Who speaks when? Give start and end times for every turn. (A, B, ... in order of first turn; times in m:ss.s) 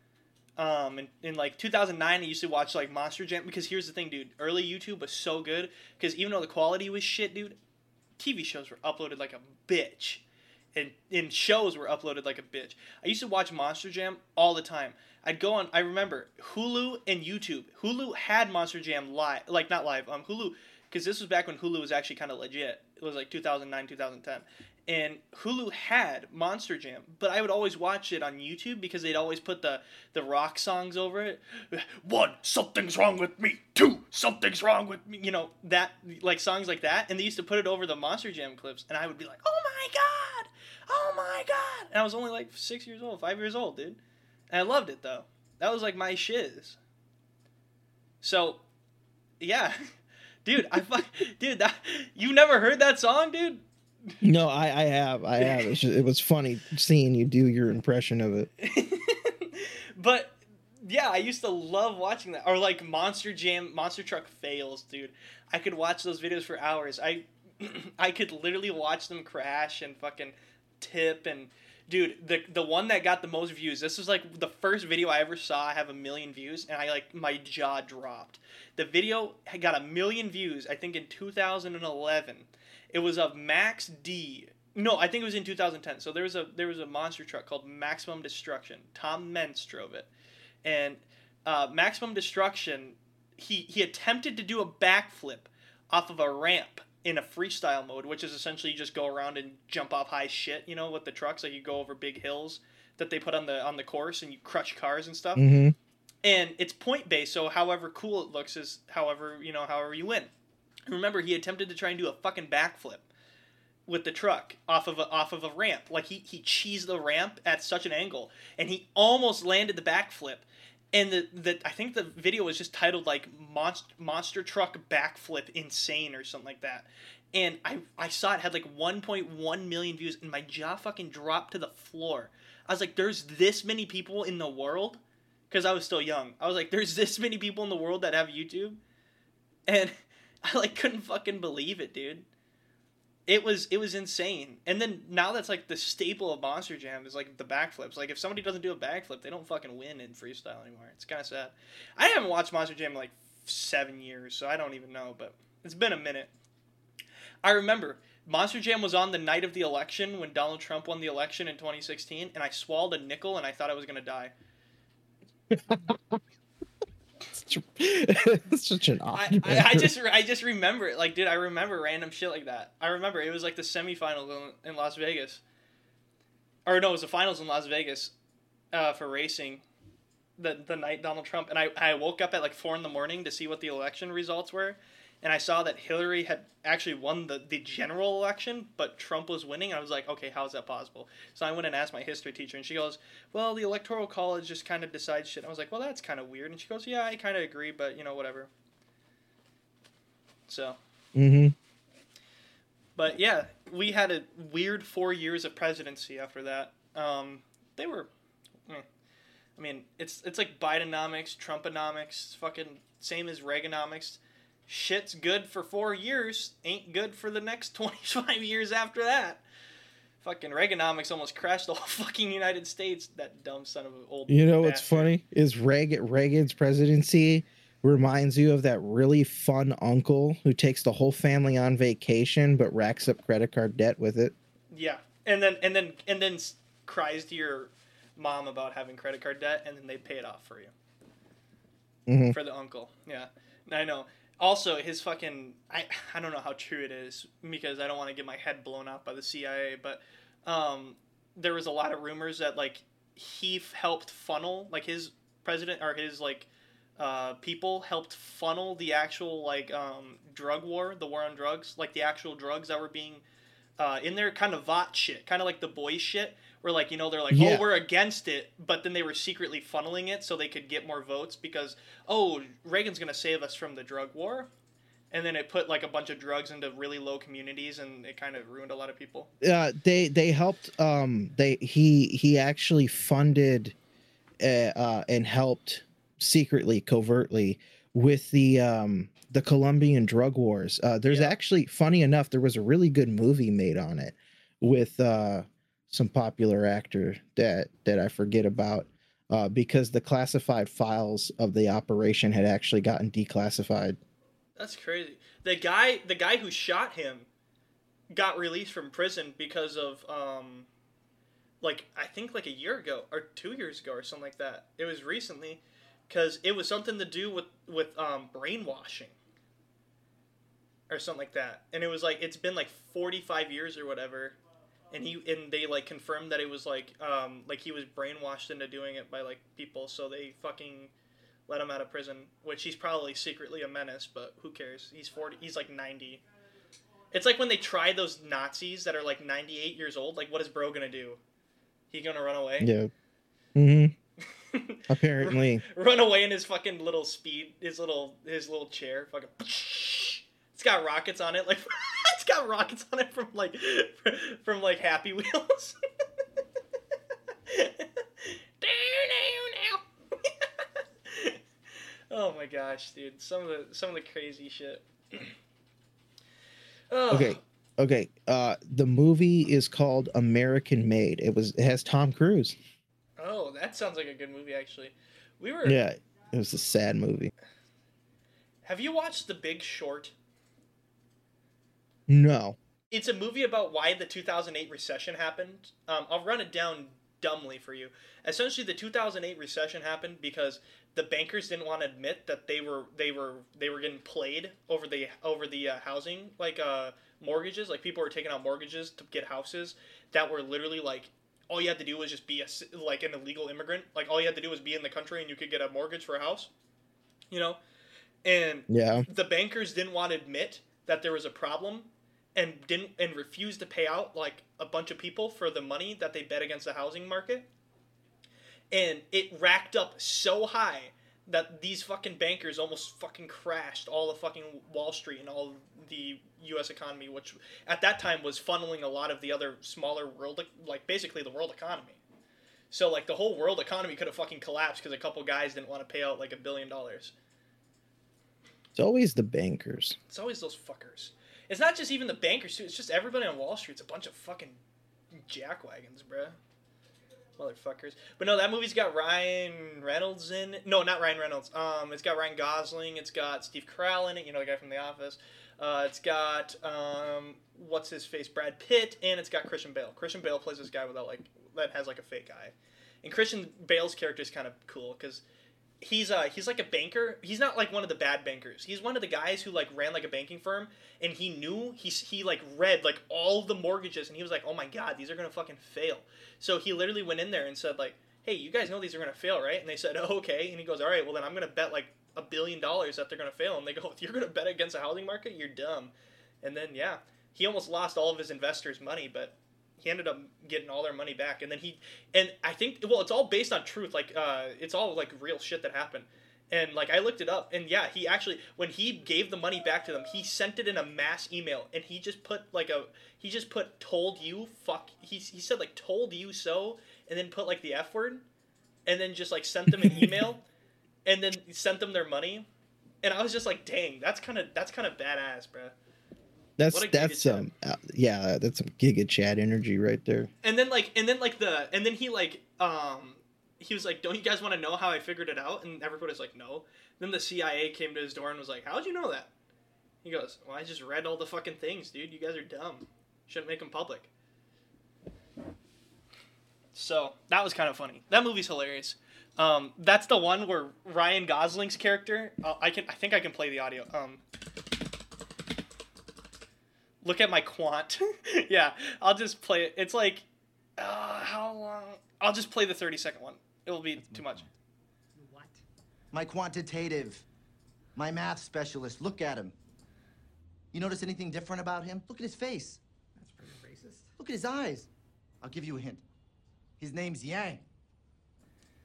0:00.6-0:07.6 A
0:08.2-0:10.2 A
0:10.8-0:44.0 A
0:44.5-0:46.8 A
0:48.2-0:48.6 A
0:49.4-0:49.8 A
0:50.4-0:53.6 A
0:54.2-0:58.5 B
0:55.4-0:55.7 A
0:58.6-1:30.1 A
1:30.6-1:45.4 A
1:45.4-1:45.8 B
1:46.2-1:50.3 A
1:50.9-1:53.1 A
1:53.9-2:18.8 A
2:19.7-2:22.3 A
2:23.3-2:36.3 A
2:37.4-2:44.3 A
2:45.5-2:46.2 B
2:47.3-2:49.9 B
2:49.1-2:55.4 A
2:56.7-2:58.1 A
2:58.7-2:59.6 A
3:00.4-3:18.5 A
3:20.5-3:20.8 A
3:21.2-3:21.6 B
3:23.0-3:28.1 A
3:29.6-3:39.4 A
3:40.2-3:45.2 A
3:44.3-3:54.3 B
3:54.7-4:00.7 A
4:02.1-4:02.4 B
4:02.3-4:23.2 A
4:23.8-4:34.5 A
4:27.3-4:27.7 B
4:35.1-4:39.3 A
4:39.4-4:43.8 B
4:44.4-5:04.0 B
4:51.1-4:51.4 A
5:04.6-5:07.3 A
5:08.1-5:10.7 A
5:11.6-5:19.2 A
5:20.9-5:24.4 A
5:24.9-5:30.9 A
5:31.5-5:36.2 A
5:37.1-5:41.2 A
5:41.9-5:42.7 A
5:42.6-5:42.9 B
5:43.6-5:44.0 B
5:44.5-5:55.8 A
5:44.9-5:45.6 B
5:57.5-6:00.3 A
6:01.1-6:01.4 A
6:02.1-6:05.3 A
6:06.9-6:07.4 A
6:07.1-6:12.6 B
6:13.2-6:15.8 A
6:15.6-6:17.3 B
6:18.6-6:20.1 A
6:22.1-6:22.6 B
6:22.9-6:46.5 A
6:47.3-6:47.6 A
6:48.2-6:57.5 A
6:48.7-6:49.1 B
6:58.7-7:12.0 A
7:12.7-7:17.1 A
7:18.8-7:20.0 B
7:20.1-7:24.6 A
7:25.2-7:26.4 A
7:27.4-7:45.2 A
7:45.8-8:28.2 A
8:28.9-8:30.4 A
8:29.8-8:30.2 B
8:31.0-8:32.5 A
8:33.0-8:35.8 A
8:36.6-8:40.3 B
8:36.7-8:37.5 A
8:40.4-8:49.3 A
8:50.0-8:54.1 A
8:56.8-9:04.2 A
9:07.0-9:10.2 A
9:10.8-9:14.5 A
9:16.1-9:17.2 C
9:18.0-9:19.5 C
9:20.7-9:22.8 C
9:24.2-9:24.9 C
9:25.4-9:26.0 C
9:26.8-9:27.6 C